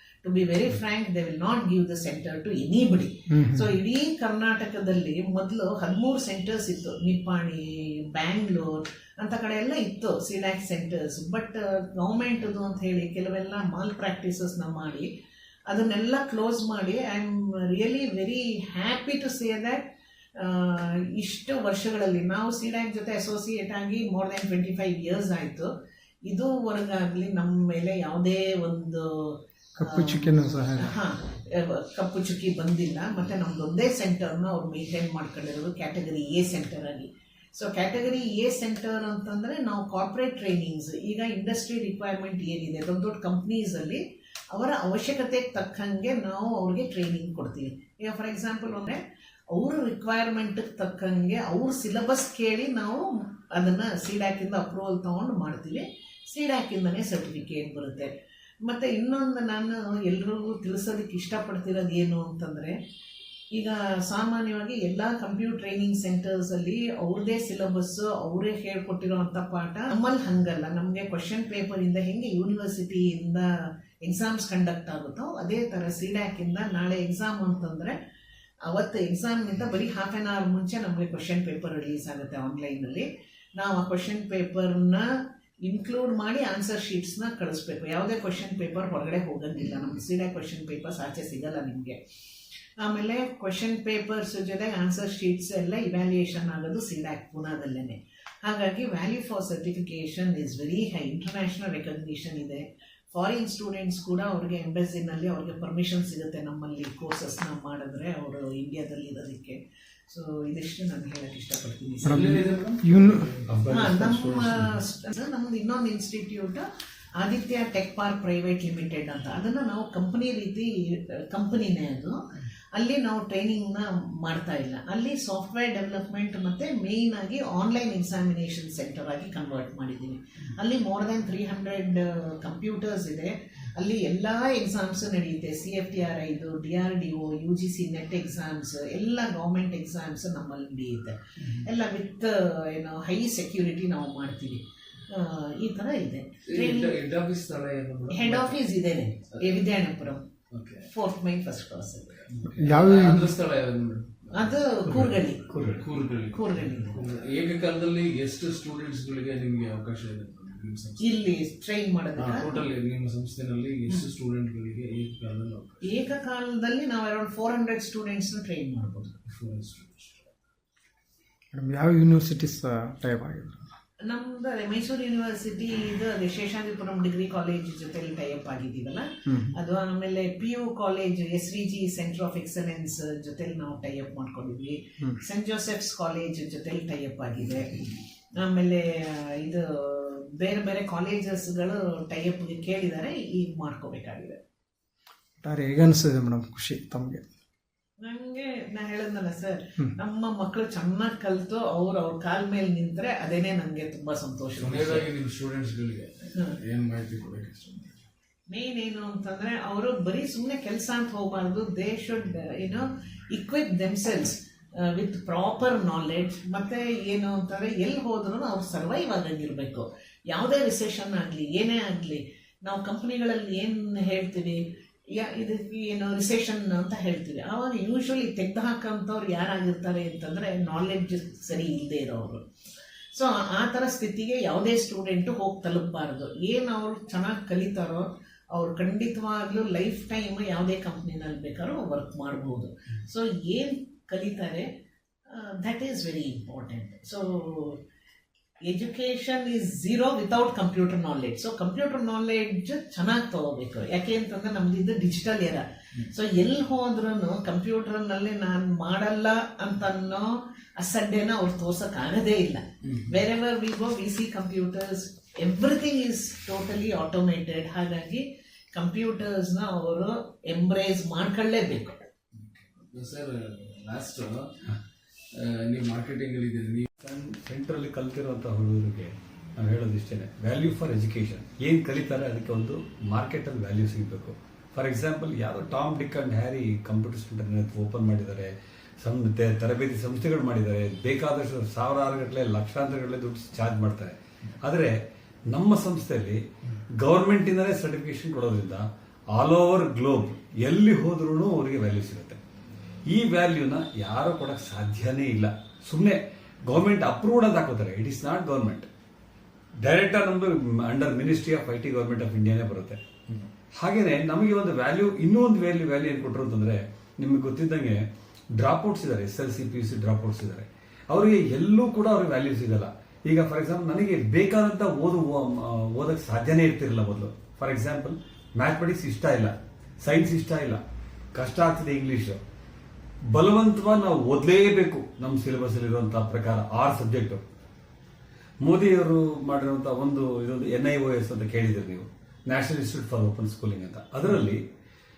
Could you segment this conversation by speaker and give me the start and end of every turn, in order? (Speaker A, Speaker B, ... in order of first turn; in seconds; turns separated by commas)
Speaker A: 0.2-15.1, Speaker B: 3.3-3.7, Speaker A: 15.7-19.8, Speaker A: 20.4-25.7, Speaker A: 26.3-49.0, Speaker B: 29.8-30.9, Speaker A: 49.5-58.1, Speaker A: 58.6-62.8, Speaker A: 63.5-73.5, Speaker A: 74.0-77.9, Speaker A: 78.7-85.1, Speaker A: 85.6-92.0, Speaker A: 92.8-112.4, Speaker C: 112.0-113.7, Speaker B: 112.1-113.3, Speaker D: 113.5-114.7, Speaker A: 113.7-116.7, Speaker A: 117.2-122.2, Speaker A: 122.7-147.0, Speaker C: 146.5-148.6, Speaker A: 148.1-150.3, Speaker C: 150.5-150.9, Speaker A: 150.9-152.2, Speaker C: 152.1-154.6, Speaker B: 152.5-153.3, Speaker A: 154.3-155.5, Speaker D: 154.9-155.9, Speaker C: 155.8-161.1, Speaker A: 156.3-157.0, Speaker A: 161.0-162.7, Speaker C: 162.2-166.0, Speaker A: 165.8-169.2, Speaker C: 169.3-170.3, Speaker B: 171.5-173.7, Speaker A: 174.1-194.4, Speaker B: 179.3-179.6, Speaker B: 195.4-197.2, Speaker A: 198.0-205.1, Speaker C: 204.6-208.0, Speaker A: 208.5-232.4, Speaker A: 233.1-244.7, Speaker A: 245.3-247.8, Speaker A: 248.7-272.0, Speaker C: 272.3-274.7, Speaker C: 275.3-276.9, Speaker D: 277.0-288.5, Speaker D: 289.0-294.9, Speaker D: 295.5-296.4, Speaker D: 297.0-302.4, Speaker D: 303.1-308.9, Speaker D: 309.8-313.0, Speaker D: 313.8-318.0, Speaker D: 318.6-330.8, Speaker D: 331.3-332.4, Speaker D: 333.3-337.4, Speaker D: 338.6-344.6